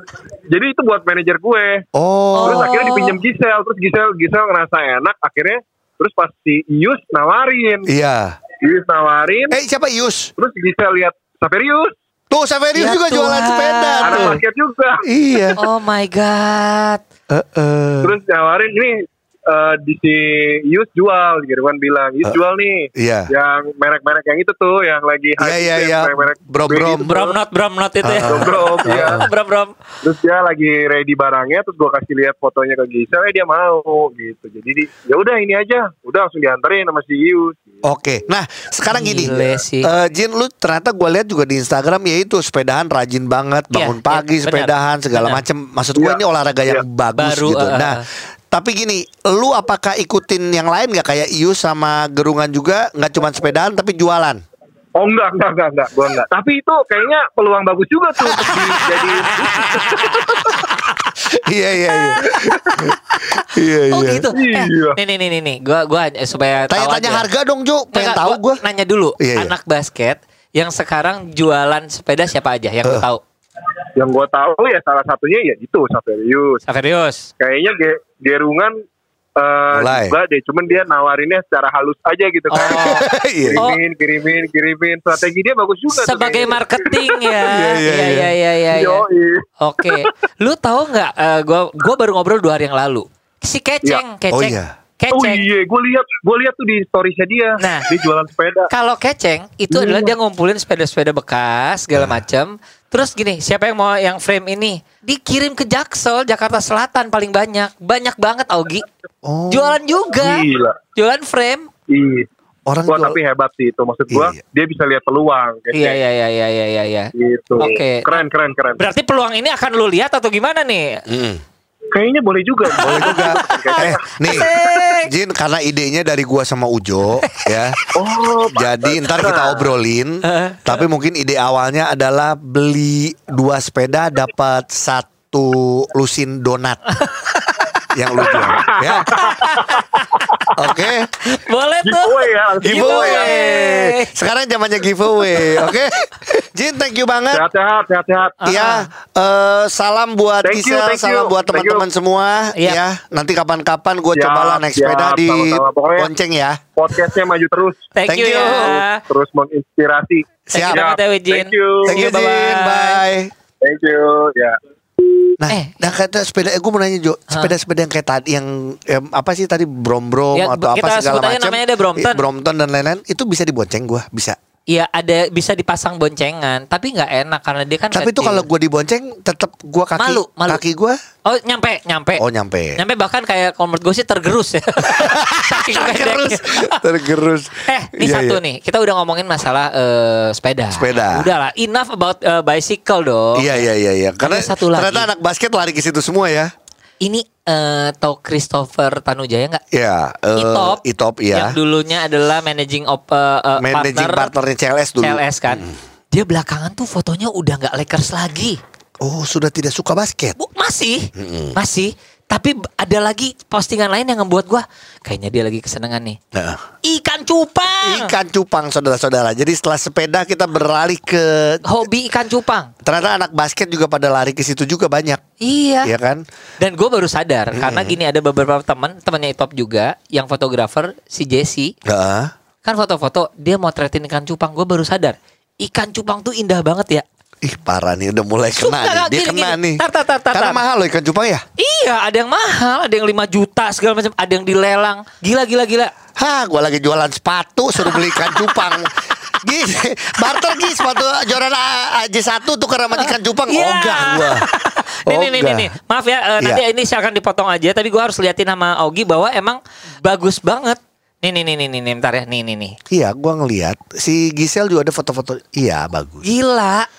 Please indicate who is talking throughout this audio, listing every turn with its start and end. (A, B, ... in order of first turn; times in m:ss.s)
0:00.5-0:01.8 A
0:01.9-0:02.7 B
0:02.3-0:03.2 C
0:02.4-0:07.9 A
0:07.9-0:08.4 B
0:08.6-0:09.6 A
0:09.5-0:10.3 B
0:10.4-0:12.0 A
0:12.3-0:14.4 B
0:12.8-0:14.4 C
0:14.0-0:15.4 A
0:15.0-0:15.6 B
0:15.6-0:17.0 C
0:17.3-0:18.2 B
0:18.0-0:27.4 A
0:23.0-0:23.3 B
0:25.4-0:27.1 B
0:27.0-0:29.7 C
0:28.0-0:29.3 B
0:28.2-0:29.2 A
0:30.0-0:37.8 A
0:37.8-0:54.4 B
0:38.9-0:39.9 C
0:43.7-0:45.4 C
0:46.0-0:46.8 A
0:47.2-0:48.0 C
0:55.0-1:00.5 A
0:58.3-1:00.5 B
0:59.4-1:00.3 C
1:01.3-1:04.3 B
1:02.2-1:02.9 A
1:03.9-1:07.3 C
1:04.3-1:05.0 A
1:06.7-1:08.6 B
1:07.9-1:13.2 C
1:09.2-1:09.6 B
1:14.0-1:16.6 A
1:16.7-1:17.3 C
1:17.4-1:18.8 A
1:19.4-1:22.8 A
1:19.7-1:20.2 B
1:22.5-1:23.1 C
1:22.6-1:23.7 B
1:23.4-1:27.4 A
1:25.9-1:29.0 C
1:27.5-1:28.3 B
1:28.7-1:30.1 A
1:29.6-1:35.4 C
1:34.3-1:34.8 B
1:35.1-1:38.7 A
1:37.6-1:37.9 C
1:38.7-1:48.8 C
1:39.7-1:40.1 A
1:49.2-1:49.8 B
1:49.5-1:51.7 C
1:50.2-1:50.8 A
1:51.9-1:52.3 A
1:52.7-1:53.2 B
1:52.9-1:56.0 A
1:54.1-1:54.4 B
1:55.7-1:58.2 C
1:57.2-1:58.8 A
1:58.8-2:01.0 C
2:01.1-2:01.4 B
2:01.9-2:04.5 A
2:02.8-2:05.1 C
2:02.8-2:07.8 B
2:07.2-2:07.5 C
2:08.0-2:09.7 A
2:08.5-2:16.8 B
2:10.2-2:10.8 C
2:17.2-2:17.8 C
2:17.9-2:19.1 B
2:18.3-2:20.5 A
2:19.1-2:20.2 C
2:20.6-2:21.1 B
2:21.3-2:24.1 C
2:21.8-2:23.4 A
2:22.6-2:27.4 B
2:27.3-2:28.4 A
2:28.4-2:28.9 C
2:28.4-2:36.6 B
2:30.4-2:31.8 A
2:32.6-2:32.8 C
2:34.1-2:36.1 A
2:36.8-2:42.0 A
2:38.0-2:39.0 C
2:38.1-2:38.8 B
2:40.5-2:40.8 B
2:40.5-2:43.0 C
2:41.9-2:43.3 B
2:43.6-2:44.6 A
2:45.4-2:54.4 B
2:45.5-2:45.8 C
2:50.3-2:52.2 C
2:54.7-2:58.5 C
2:57.9-3:01.0 B
3:00.0-3:00.6 C
3:01.3-3:02.2 C
3:02.2-3:02.8 B
3:02.8-3:06.9 C
3:04.9-3:08.4 B
3:07.7-3:13.6 C
3:10.7-3:11.3 B
3:13.4-3:16.5 B
3:14.2-3:15.1 C
3:17.0-3:19.6 C
3:19.7-3:21.6 B
3:20.4-3:20.8 C
3:21.3-3:24.3 C
3:23.6-3:25.7 B
3:25.0-3:28.6 C
3:29.0-3:30.4 B
3:30.4-3:36.2 C
3:31.2-3:31.6 B
3:36.3-3:36.6 B
3:36.8-3:38.1 C
3:37.8-3:41.6 B
3:41.6-3:42.7 C
3:42.8-3:45.2 B
3:45.4-3:45.9 C
3:45.8-3:46.2 B
3:46.6-3:51.7 C
3:47.5-3:48.0 B
3:51.8-3:52.3 B
3:52.6-3:57.0 C
3:57.4-4:01.4 B
3:58.6-4:00.6 C
4:01.6-4:05.9 C
4:06.2-4:14.5 B
4:07.9-4:08.5 C
4:13.0-4:22.8 C
4:15.1-4:15.7 B
4:22.9-4:26.2 B
4:26.2-4:26.9 C